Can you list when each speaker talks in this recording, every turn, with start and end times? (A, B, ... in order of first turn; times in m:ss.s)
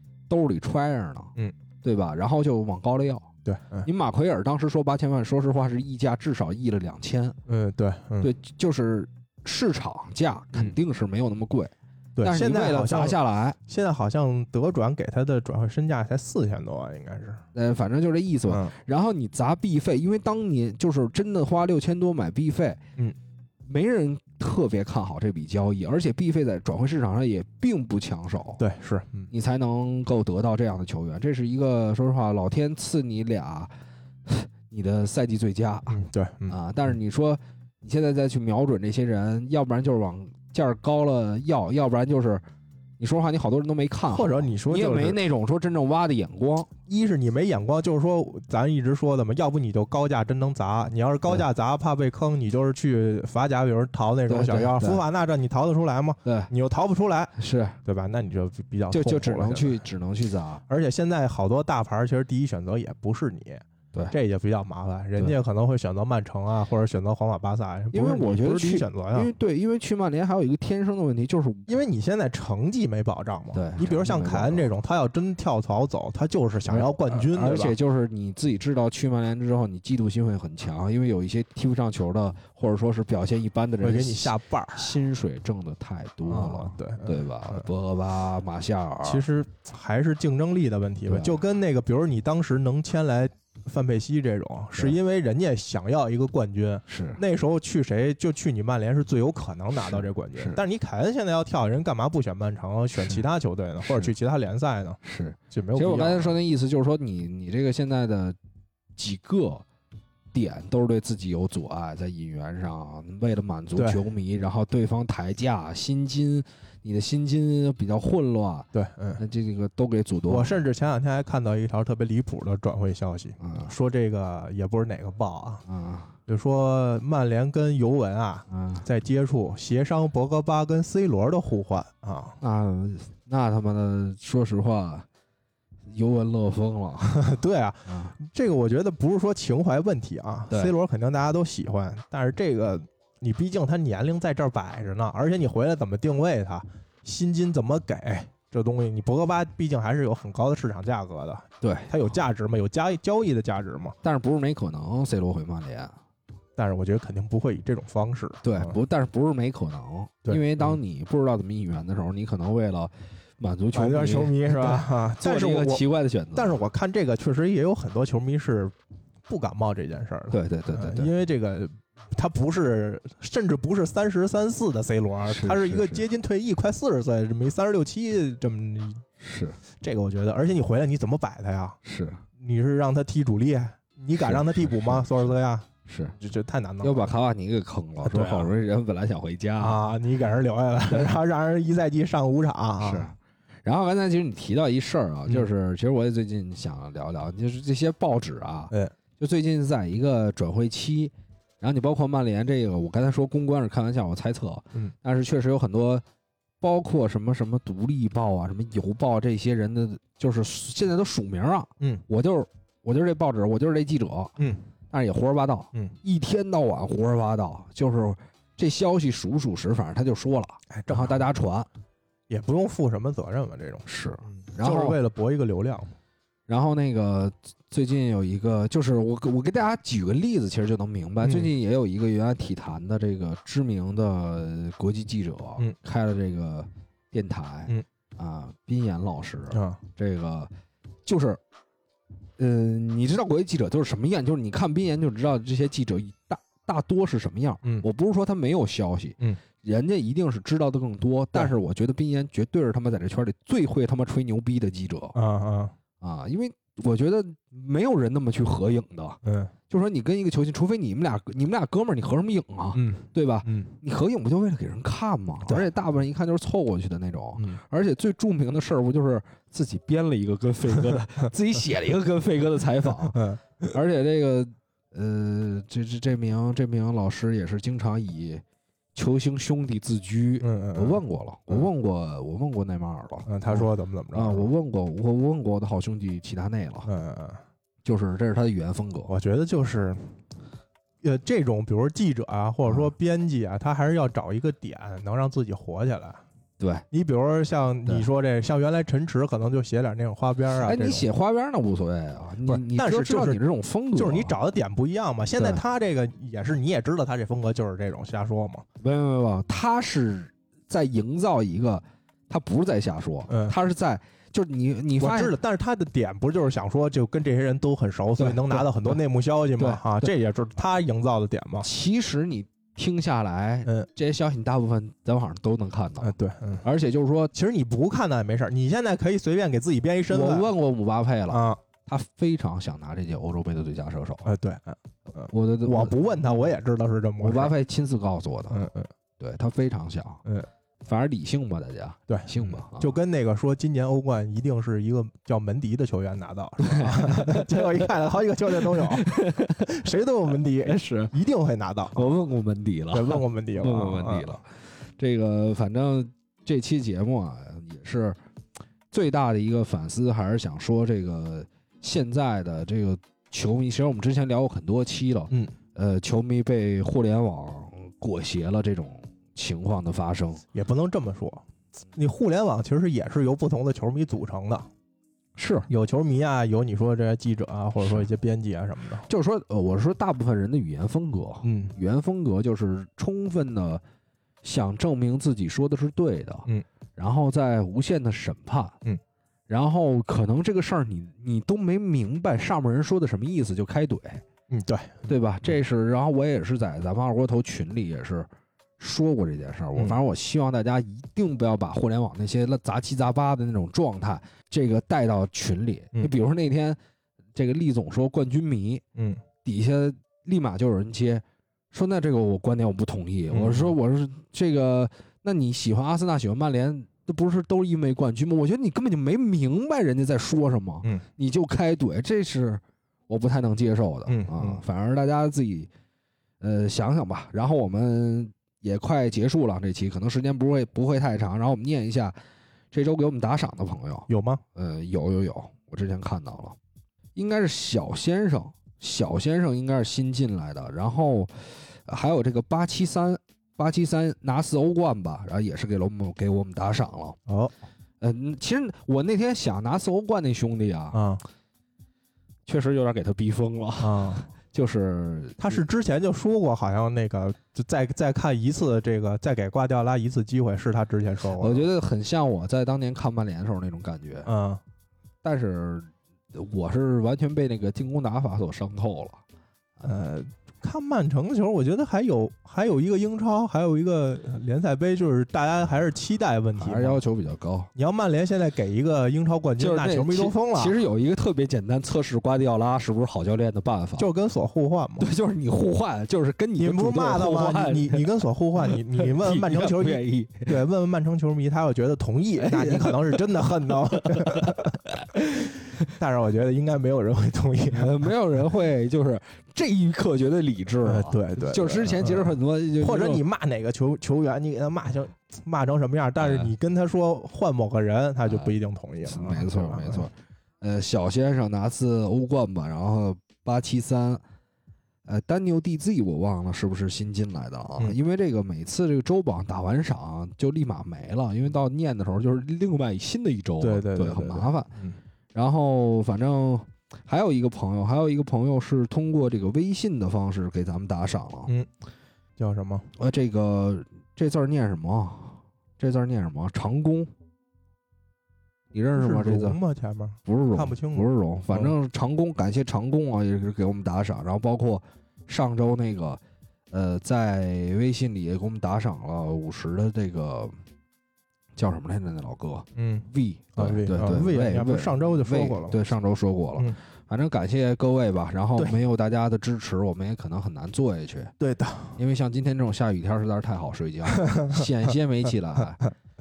0:00.3-0:03.3 A
0:03.4-0:03.9 B
0:03.8-0:07.4 A
0:07.5-0:08.3 B
0:08.2-0:13.6 A
0:12.2-0:17.4 B
0:17.5-0:22.8 A
0:18.5-0:18.7 B
0:23.6-0:28.6 A
0:28.6-0:29.3 B
0:29.3-0:33.7 A
0:34.3-0:42.4 A
0:35.9-0:36.6 B
0:43.0-0:46.7 A
0:44.1-0:45.2 B
0:46.9-0:57.3 B
0:54.3-0:55.0 A
0:56.2-0:56.5 A
0:57.4-0:57.8 A
0:57.8-0:59.8 B
0:58.9-1:00.6 A
1:00.7-1:09.3 B
1:07.9-1:11.7 A
1:11.7-1:17.7 B
1:13.5-1:14.7 A
1:16.7-1:29.2 A
1:23.8-1:24.9 B
1:26.2-1:27.7 B
1:29.0-1:45.0 B
1:31.0-1:31.4 A
1:36.9-1:37.2 A
1:39.8-1:40.6 A
1:43.8-1:44.1 A
1:45.0-1:48.4 A
1:45.5-1:46.4 B
1:49.0-1:49.6 A
1:50.3-2:00.6 A
1:53.8-1:54.0 B
1:58.7-1:59.2 B
2:00.3-2:05.6 B
2:03.4-2:03.7 A
2:05.6-2:06.1 A
2:06.3-2:12.4 B
2:08.5-2:08.8 A
2:12.4-2:15.0 A
2:15.9-2:17.3 A
2:17.1-2:34.0 B
2:17.9-2:18.1 A
2:31.6-2:31.9 A
2:34.0-2:35.9 A
2:36.6-2:38.8 B
2:38.4-2:46.6 A
2:40.2-2:40.8 B
2:43.7-2:48.7 B
2:49.3-2:59.0 B
2:50.3-2:51.1 A
2:55.2-2:56.0 A
2:59.2-2:59.6 A
2:59.8-3:01.8 B
3:01.8-3:02.2 A
3:02.4-3:05.7 B
3:04.2-3:05.3 A
3:05.8-3:06.1 A
3:06.2-3:07.1 B
3:06.8-3:09.8 A
3:08.0-3:08.5 B
3:09.6-3:13.1 B
3:12.8-3:26.0 A
3:26.6-3:34.4 A
3:34.4-3:34.6 B
3:34.9-3:41.7 A
3:40.7-3:41.2 B
3:42.3-3:45.9 B
3:43.8-3:45.0 A
3:46.5-4:00.5 A
3:51.2-3:51.5 B
3:59.5-3:59.8 B
4:01.0-4:01.4 A
4:02.4-4:15.2 A
4:15.1-4:15.7 B
4:16.0-4:38.4 A
4:19.2-4:19.5 B
4:22.7-4:23.7 B
4:33.1-4:33.7 B
4:38.9-4:46.9 A
4:40.4-4:41.7 B
4:43.3-4:44.5 B
4:46.8-4:47.4 B
4:47.8-4:49.1 A
4:49.1-4:50.1 B
4:51.0-4:56.2 B
4:56.9-5:01.1 B
5:00.6-5:04.3 A
5:02.4-5:03.4 B
5:04.0-5:08.6 B
5:08.8-5:15.4 A
5:13.3-5:13.5 B
5:15.0-5:21.6 B
5:18.2-5:19.0 A
5:19.6-5:20.1 A
5:21.6-5:27.3 A
5:26.0-5:26.6 B
5:27.3-5:30.5 B
5:30.1-5:34.3 A
5:31.3-5:31.6 B
5:34.2-5:37.5 B
5:35.3-5:36.4 A
5:37.2-5:38.7 A
5:38.5-5:38.9 B
5:39.2-5:40.2 A
5:40.8-5:43.0 A
5:42.1-5:49.1 B
5:46.6-5:47.9 A
5:48.7-5:49.7 A
5:49.6-5:52.1 B
5:50.6-5:51.1 A
5:51.9-5:58.2 A
5:52.9-5:54.4 B
5:58.9-6:10.4 A
6:10.5-6:14.7 B
6:15.4-6:15.7 A
6:15.7-6:19.1 B
6:19.1-6:23.8 A
6:21.4-6:21.7 B
6:24.4-6:28.8 A
6:29.5-6:34.2 A
6:34.5-6:35.1 B
6:35.0-6:46.8 A
6:47.3-6:48.8 A
6:49.0-6:49.2 B
6:49.4-7:05.7 A
6:53.3-6:53.7 B
7:04.1-7:04.6 B
7:06.4-7:12.2 A
7:12.7-7:16.6 A
7:14.1-7:14.4 B
7:17.2-7:27.2 A
7:27.3-7:27.5 B
7:28.0-7:31.1 A
7:30.9-7:31.2 B
7:32.5-7:35.6 A
7:33.8-7:34.3 B
7:35.4-7:41.6 B
7:41.4-7:44.3 A
7:44.2-7:44.6 B
7:45.2-7:49.2 A
7:49.8-7:57.0 B
7:56.6-7:57.7 A
7:57.7-8:00.8 B
7:59.6-8:04.1 A
8:04.0-8:05.1 B
8:05.0-8:08.0 A
8:06.6-8:14.8 B
8:08.9-8:10.6 A
8:12.4-8:13.2 A
8:14.0-8:15.5 A
8:15.9-8:18.1 B
8:17.7-8:23.2 A
8:20.8-8:30.1 B
8:26.2-8:26.5 A
8:28.2-8:28.5 A
8:29.0-8:34.2 A
8:35.0-8:44.7 A
8:43.6-8:45.0 B
8:45.3-8:51.5 A
8:52.4-8:52.9 B
8:53.0-8:57.1 A
8:58.7-8:59.6 A
8:58.9-9:01.7 B
9:00.2-9:06.2 A
9:06.7-9:10.5 A
9:11.6-9:21.3 A
9:12.8-9:15.8 B
9:21.4-9:22.0 B
9:22.0-9:25.8 A
9:24.1-9:24.6 B